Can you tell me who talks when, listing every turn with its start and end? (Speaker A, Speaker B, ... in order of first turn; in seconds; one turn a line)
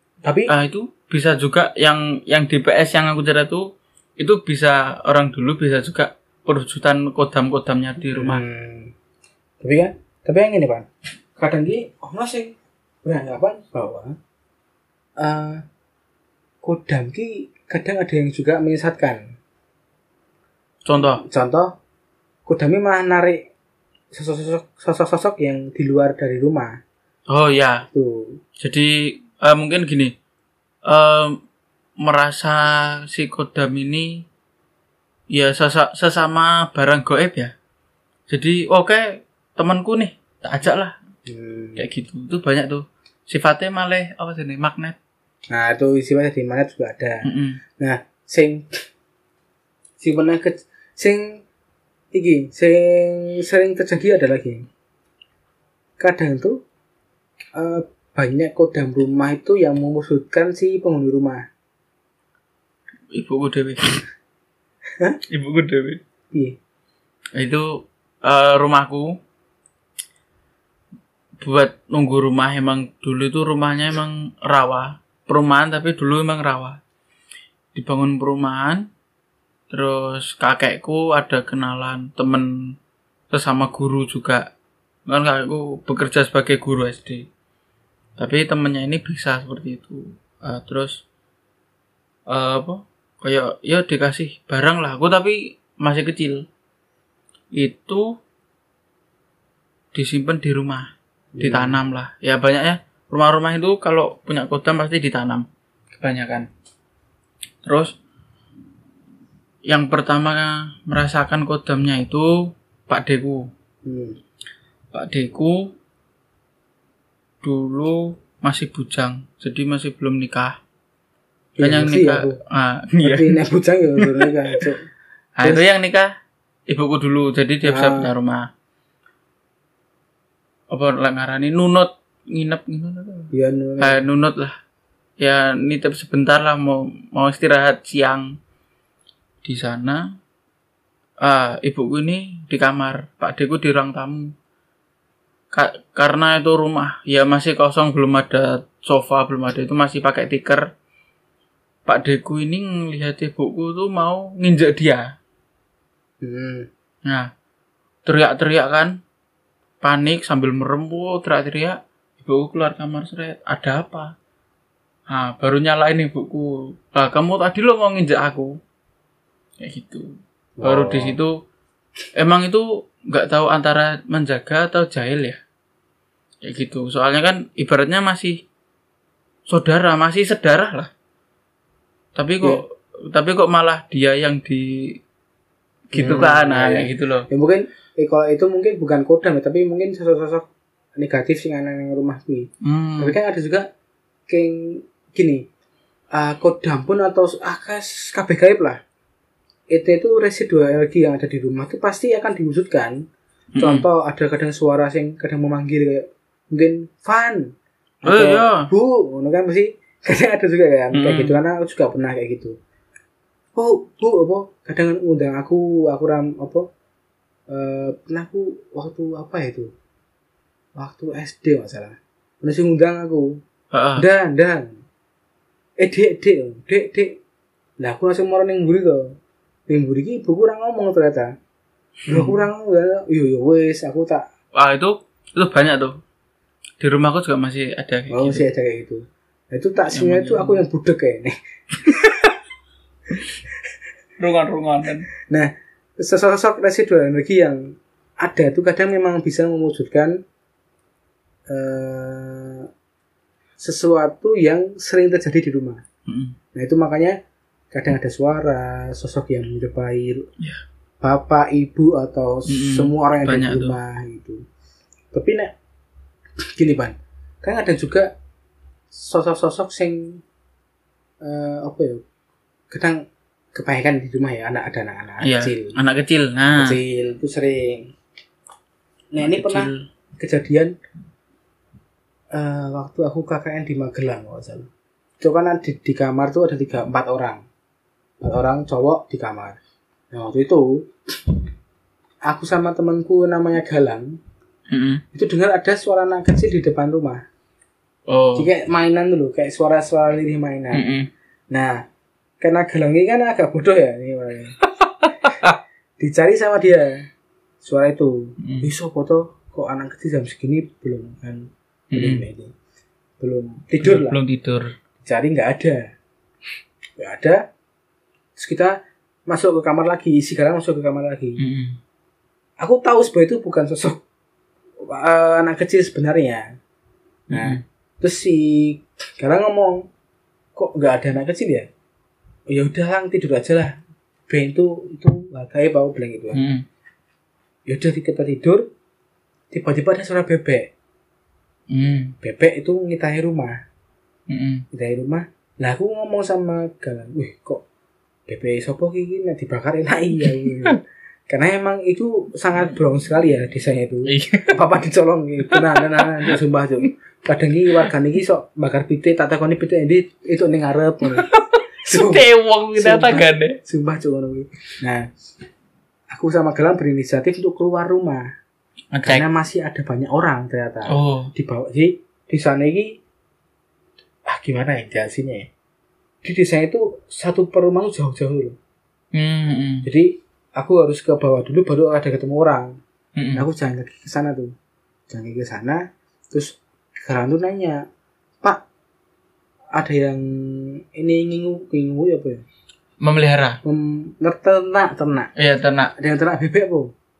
Speaker A: 0.2-0.5
Speaker B: 0.5-3.7
Speaker B: 4.2-8.4
Speaker A: 8.1-8.9
Speaker A: 9.6-14.2
Speaker A: 15.2-15.6
Speaker A: 16.6-19.2
Speaker B: 20.9-21.2
Speaker A: 20.9-21.7
Speaker A: 22.5-23.5
Speaker A: 24.1-26.8
Speaker B: 27.3-27.9
Speaker A: 27.9-28.4
Speaker B: 28.6-30.1
Speaker B: 30.9-31.4
Speaker B: 32.0-34.2
Speaker B: 35.3-37.5
Speaker B: 38.3-41.0
Speaker A: 41.3-41.9
Speaker B: 41.8-45.0
Speaker A: 45.5-47.3
Speaker B: 47.2-47.6
Speaker A: 47.8-48.7
Speaker A: 50.0-51.4
Speaker A: 52.1-54.7
Speaker A: 56.0-56.6
Speaker A: 57.5-61.5
Speaker B: 63.1-63.9
Speaker B: 65.3-66.0
Speaker A: 66.3-66.6
Speaker B: 67.4-69.2
Speaker B: 71.4-76.8
Speaker B: 77.7-78.9
Speaker B: 79.7-82.8
Speaker B: 83.3-84.5
Speaker B: 85.1-87.3
Speaker B: 88.2-91.0
Speaker B: 92.3-96.5
Speaker B: 97.6-98.2
Speaker B: 99.9-106.5
Speaker A: 101.3-101.8
Speaker B: 107.7-107.9
Speaker B: 109.7-113.5
Speaker A: 113.8-114.2
Speaker B: 114.9-115.7
Speaker B: 117.4-120.6
Speaker A: 121.6-122.4
Speaker B: 121.6-123.4
Speaker A: 123.0-124.8
Speaker B: 124.0-124.6
Speaker B: 125.4-126.1
Speaker B: 126.7-128.5
Speaker A: 127.6-128.1
Speaker B: 130.7-134.6
Speaker A: 133.3-134.0
Speaker B: 135.2-138.4
Speaker B: 139.4-140.1
Speaker B: 141.2-144.3
Speaker B: 145.5-150.7
Speaker B: 151.9-155.1
Speaker A: 156.2-156.7
Speaker B: 157.1-157.3
Speaker B: 158.1-159.0
Speaker B: 159.8-164.1
Speaker B: 165.1-168.6
Speaker B: 169.6-171.3
Speaker A: 170.6-171.2
Speaker B: 172.2-175.4
Speaker B: 176.4-178.4
Speaker B: 179.5-180.9
Speaker B: 182.2-185.0
Speaker B: 185.9-187.3
Speaker A: 185.9-192.5
Speaker B: 192.6-193.2
Speaker A: 193.0-193.7
Speaker A: 194.3-195.5
Speaker A: 196.1-198.8
Speaker A: 199.7-203.0
Speaker B: 203.6-203.9
Speaker A: 203.6-207.5
Speaker A: 208.0-212.6
Speaker B: 208.1-208.7
Speaker B: 210.9-211.4
Speaker A: 213.6-216.7
Speaker A: 217.5-219.7
Speaker A: 220.8-223.4
Speaker B: 223.7-224.1
Speaker A: 224.0-224.8
Speaker A: 225.8-227.2
Speaker A: 227.8-229.2
Speaker A: 229.7-231.3
Speaker A: 232.1-234.3
Speaker B: 232.1-232.4
Speaker B: 234.6-236.0
Speaker B: 236.8-238.4
Speaker A: 238.1-242.1
Speaker B: 239.9-240.6
Speaker B: 244.2-245.1
Speaker A: 245.3-250.2
Speaker A: 251.5-252.7
Speaker A: 253.6-255.8
Speaker B: 256.1-256.4
Speaker A: 256.5-257.2
Speaker A: 257.7-260.3
Speaker A: 261.0-264.4
Speaker B: 262.5-263.8
Speaker A: 265.1-265.5
Speaker A: 266.6-268.1
Speaker A: 268.9-270.2
Speaker A: 271.2-272.0
Speaker A: 272.7-275.7
Speaker B: 275.2-276.8
Speaker A: 276.6-277.9
Speaker A: 279.1-280.7
Speaker B: 279.2-279.9
Speaker A: 282.3-284.7
Speaker A: 285.2-287.4
Speaker A: 288.2-289.6
Speaker A: 290.1-290.9
Speaker A: 292.3-294.2
Speaker B: 294.7-295.0
Speaker A: 295.1-297.2
Speaker B: 298.1-298.5
Speaker A: 298.4-300.9
Speaker B: 300.7-301.1
Speaker A: 301.5-301.8
Speaker A: 302.4-304.6
Speaker B: 304.6-305.6
Speaker A: 306.0-307.1
Speaker A: 307.6-312.5
Speaker B: 308.4-308.7
Speaker B: 311.9-312.2
Speaker A: 313.2-314.2
Speaker B: 313.8-314.7
Speaker A: 315.0-315.9
Speaker A: 317.0-317.4
Speaker A: 318.4-318.8
Speaker A: 319.3-321.4
Speaker B: 321.4-321.8
Speaker A: 322.6-324.0
Speaker A: 324.9-326.5
Speaker B: 327.3-327.6
Speaker A: 327.3-329.8
Speaker A: 330.6-331.7
Speaker A: 332.5-333.8
Speaker A: 334.3-336.4
Speaker B: 336.3-336.7
Speaker A: 337.7-338.7
Speaker A: 339.5-340.7
Speaker B: 341.7-342.1
Speaker A: 342.2-343.6
Speaker B: 344.3-344.6
Speaker A: 344.7-347.6
Speaker A: 348.3-361.3
Speaker B: 350.2-350.7
Speaker B: 354.1-354.6
Speaker B: 355.5-356.4
Speaker B: 361.2-363.6
Speaker A: 361.9-365.1
Speaker A: 366.1-368.3
Speaker B: 368.9-369.2
Speaker A: 369.0-372.9
Speaker B: 370.9-371.3
Speaker A: 374.3-375.5
Speaker A: 376.2-378.6
Speaker B: 379.1-379.9
Speaker A: 379.8-382.8
Speaker B: 383.2-383.4
Speaker A: 383.3-384.5
Speaker A: 385.1-387.9
Speaker A: 389.8-392.4
Speaker B: 393.0-393.6
Speaker A: 393.6-395.3
Speaker B: 395.4-395.9
Speaker A: 396.0-396.9